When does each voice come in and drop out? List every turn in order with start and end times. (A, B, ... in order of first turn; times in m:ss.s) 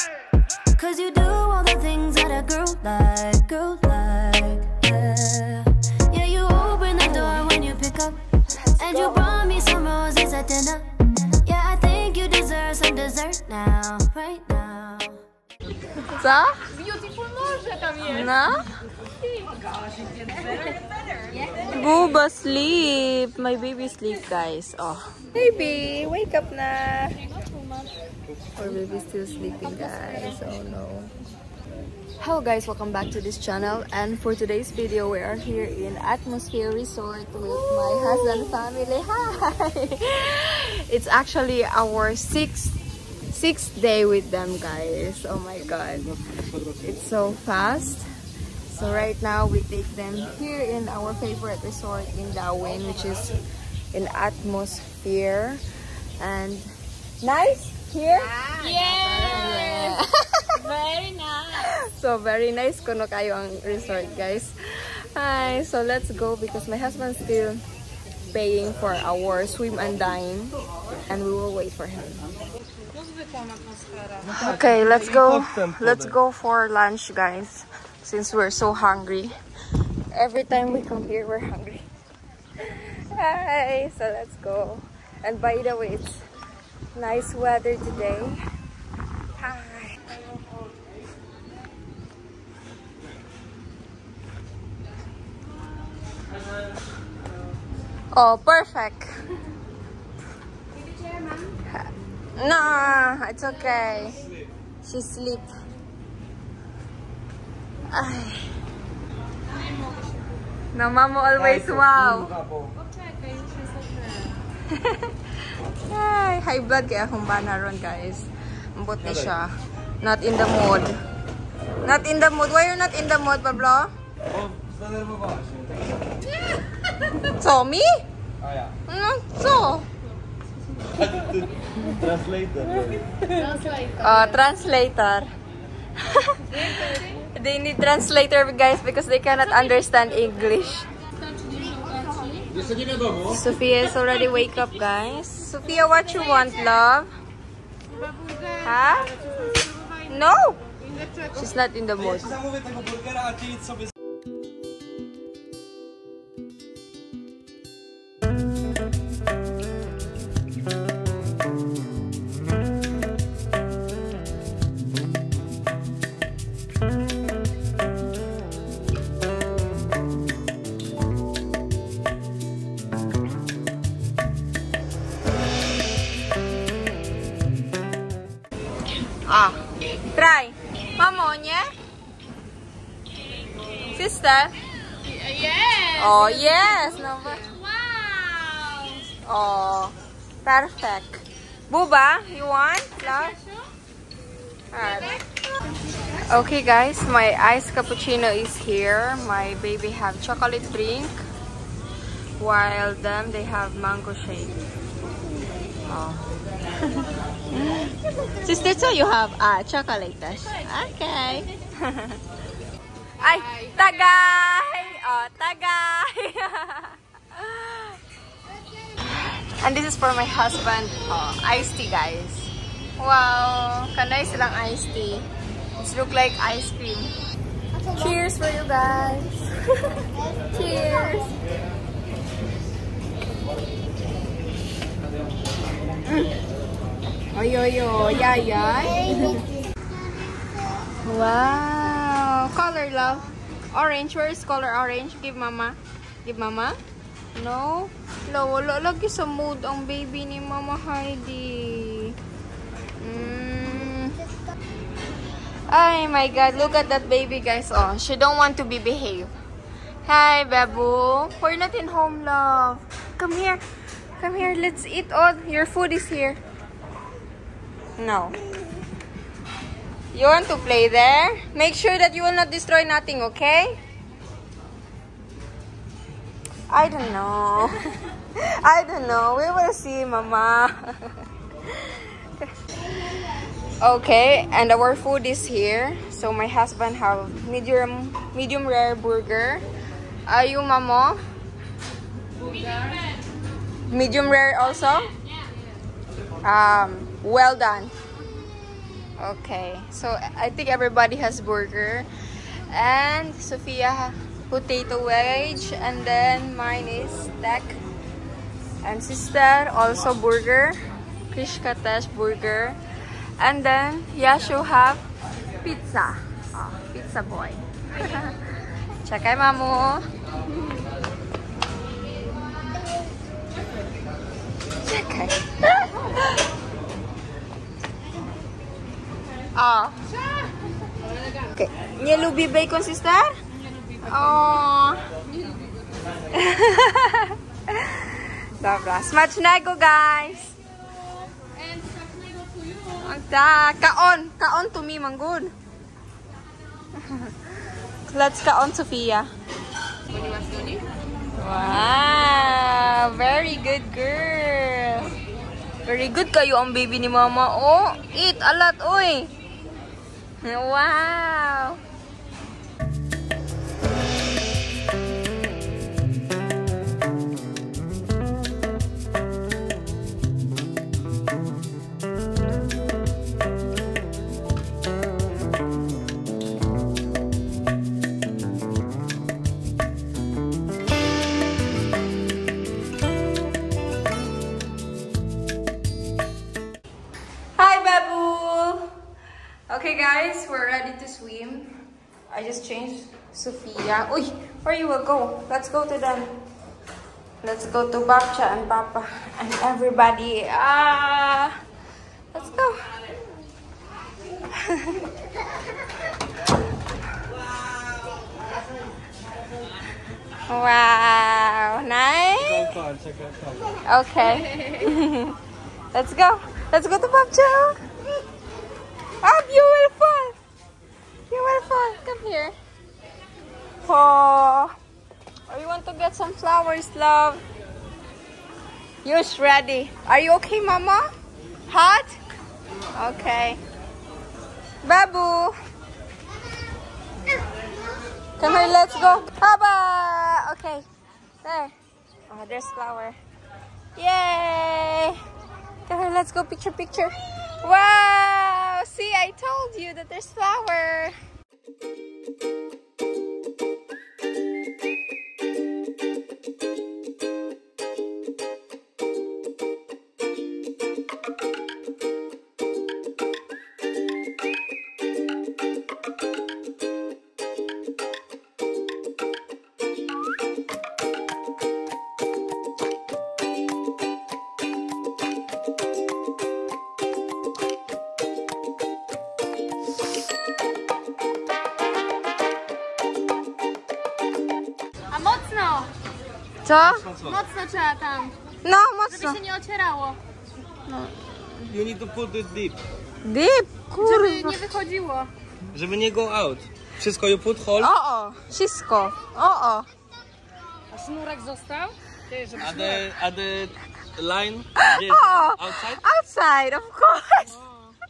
0:00.7-0:15.2 A
0:08.9-0:09.2 B
0:16.0-0:16.6 B
0:16.7-0:18.0 C
0:18.0-0:18.7 B
0:21.6-0:27.2 B
0:28.6-0:31.1 B
0:32.2-0:42.8 B
0:43.3-0:46.1 B
0:46.7-0:48.0 B
0:48.7-0:53.3 B
0:53.9-0:55.6 B
0:56.2-1:00.5 B
0:58.4-1:00.0 C
1:00.6-1:01.4 C
1:01.5-1:07.6 B
1:08.3-1:10.5 B
1:11.0-1:12.2 B
1:13.1-1:13.8 C
1:14.2-1:16.1 D
1:14.3-1:19.3 B
1:20.1-1:21.8 B
1:22.6-1:26.2 B
1:26.9-1:28.4 B
1:29.4-1:30.0 B
1:38.1-1:39.1 B
1:41.7-1:44.2 B
1:44.8-1:45.5 B
1:47.9-1:48.4 B
1:50.7-1:52.3 B
1:51.4-1:52.7 D
1:53.2-1:54.1 C
1:54.7-1:55.1 B
1:55.8-1:59.5 B
1:59.0-1:59.3 D
2:00.0-2:01.0 B
2:01.8-2:03.9 B
2:04.3-2:06.0 D
2:07.2-2:08.0 B
2:08.4-2:08.7 D
2:08.9-2:09.9 B
2:10.8-2:13.6 D
2:13.4-2:14.3 C
2:14.0-2:15.3 B
2:16.0-2:20.8 B
2:21.2-2:22.5 C
2:22.7-2:23.1 D
2:23.2-2:27.1 B
2:28.2-2:28.5 C
2:28.5-2:29.4 B
2:30.0-2:30.6 B
2:31.3-2:32.4 B
2:32.1-2:33.9 D
2:59.2-2:59.6 B
3:00.1-3:01.7 B
3:03.8-3:04.5 B
3:05.0-3:09.1 C
3:05.9-3:07.6 B
3:09.2-3:13.4 B
3:13.0-3:13.6 C
3:14.7-3:15.2 B
3:16.2-3:21.2 B
3:22.4-3:24.6 B
3:25.9-3:32.2 B
3:33.2-3:38.0 B
3:39.2-3:45.3 B
3:45.8-3:47.1 B
3:47.9-3:51.4 B
3:56.1-3:56.3 B
3:57.3-3:59.4 B
4:01.0-4:06.8 B
4:07.3-4:12.2 B
4:13.0-4:14.2 B
4:15.7-4:19.3 B
4:20.0-4:23.6 B
4:24.2-4:26.4 B
4:28.0-4:28.4 B
4:30.1-4:33.7 B
4:36.7-4:41.2 B
4:41.7-4:42.4 B
4:43.8-4:49.6 B
4:50.3-4:51.2 B
4:53.9-4:55.1 B
4:56.4-4:57.9 B
4:59.2-5:02.1 B
5:02.7-5:07.8 B
5:08.8-5:10.8 B
5:11.3-5:12.8 B
5:13.4-5:15.0 B
5:15.6-5:18.4 B
5:19.0-5:20.0 B
5:24.8-5:26.2 B
5:29.5-5:30.0 B
5:31.5-5:33.3 B
5:34.0-5:35.0 B
5:36.3-5:40.6 B
5:41.7-5:42.8 C
5:42.9-5:45.5 B
5:47.0-5:47.3 B
5:48.1-5:49.3 B
5:50.1-5:50.8 C
5:51.4-5:55.1 B
5:55.8-5:59.3 B
6:00.4-6:01.8 B
6:27.6-6:28.9 B
6:29.7-6:36.3 B
6:37.4-6:41.6 B
6:42.3-6:42.9 B
6:44.5-6:45.0 B
6:50.5-6:52.7 B
6:52.4-6:53.8 D
6:53.8-6:55.4 B
6:55.9-6:57.8 B
6:59.2-7:00.3 B
7:01.3-7:02.5 B
7:03.8-7:04.7 B
7:05.5-7:07.4 B
7:09.0-7:11.1 B
7:11.7-7:12.2 B
7:12.9-7:13.6 B
7:14.8-7:15.5 B
7:18.4-7:20.8 B
7:21.4-7:21.7 B
7:22.3-7:23.2 B
7:24.0-7:25.2 B
7:25.9-7:31.1 B
8:05.1-8:05.9 C
8:06.6-8:07.1 B
8:06.8-8:07.4 D
8:07.3-8:08.3 C
8:08.6-8:09.4 B
8:09.1-8:10.2 C
8:10.9-8:11.1 B
8:11.6-8:12.8 D
8:13.2-8:14.6 B
8:14.0-8:15.3 C
8:15.7-8:17.9 D
8:17.8-8:19.9 B
8:20.9-8:22.5 C
8:22.5-8:26.0 D
8:24.8-8:27.6 B